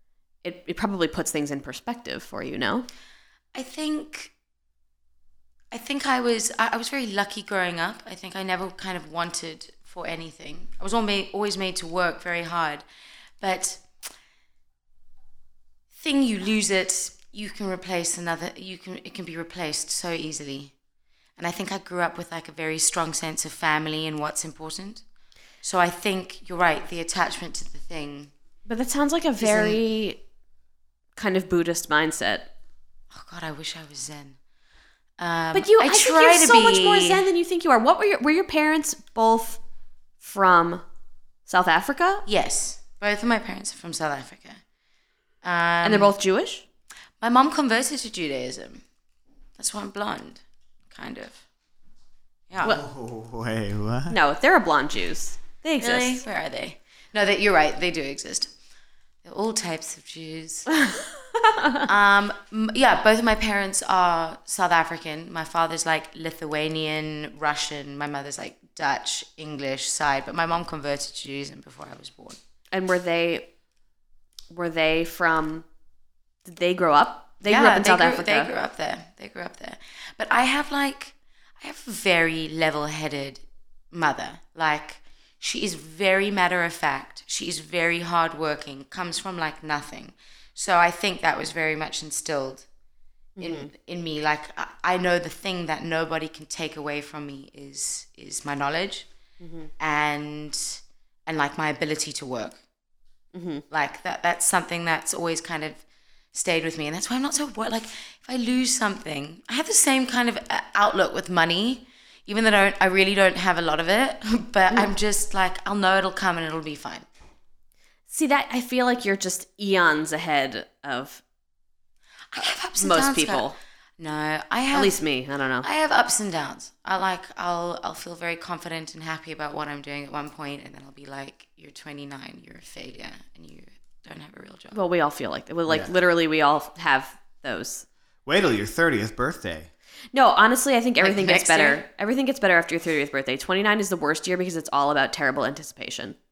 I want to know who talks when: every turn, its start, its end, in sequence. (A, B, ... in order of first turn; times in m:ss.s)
0:00.4-0:02.9 A
0:03.5-0:04.3 B
0:05.7-0:12.8 B
0:13.4-0:13.8 B
0:15.9-0:20.7 B
0:21.4-0:25.0 B
0:25.6-0:28.3 B
0:28.6-0:30.2 A
0:29.4-0:29.8 B
0:31.2-0:32.5 A
0:33.1-0:34.4 B
0:35.2-0:37.2 B
0:35.5-0:39.6 A
0:40.2-0:40.8 A
0:41.5-0:42.2 A
0:42.2-0:44.6 B
0:45.4-0:46.1 B
0:45.8-0:46.6 A
0:47.2-0:48.8 B
0:49.6-0:50.4 B
0:50.9-0:51.4 B
0:52.5-0:52.8 B
0:52.6-0:54.2 C
0:54.1-0:56.2 A
0:55.8-0:58.5 B
0:59.2-1:00.7 B
1:01.4-1:01.8 A
1:01.8-1:12.4 B
1:12.7-1:13.5 A
1:14.5-1:15.6 A
1:16.4-1:18.5 A
1:17.4-1:32.6 B
1:33.4-1:33.7 A
1:33.4-1:39.1 B
1:39.4-1:39.7 A
1:39.8-1:42.6 B
1:43.3-1:43.6 A
1:43.7-1:45.8 B
1:46.3-1:57.0 B
1:58.1-2:01.2 A
2:02.3-2:05.0 B
2:02.4-2:03.6 A
2:04.7-2:05.7 A
2:05.6-2:14.8 B
2:14.7-2:17.8 A
2:18.2-2:19.7 C
2:20.1-2:26.2 A
2:21.0-2:21.8 B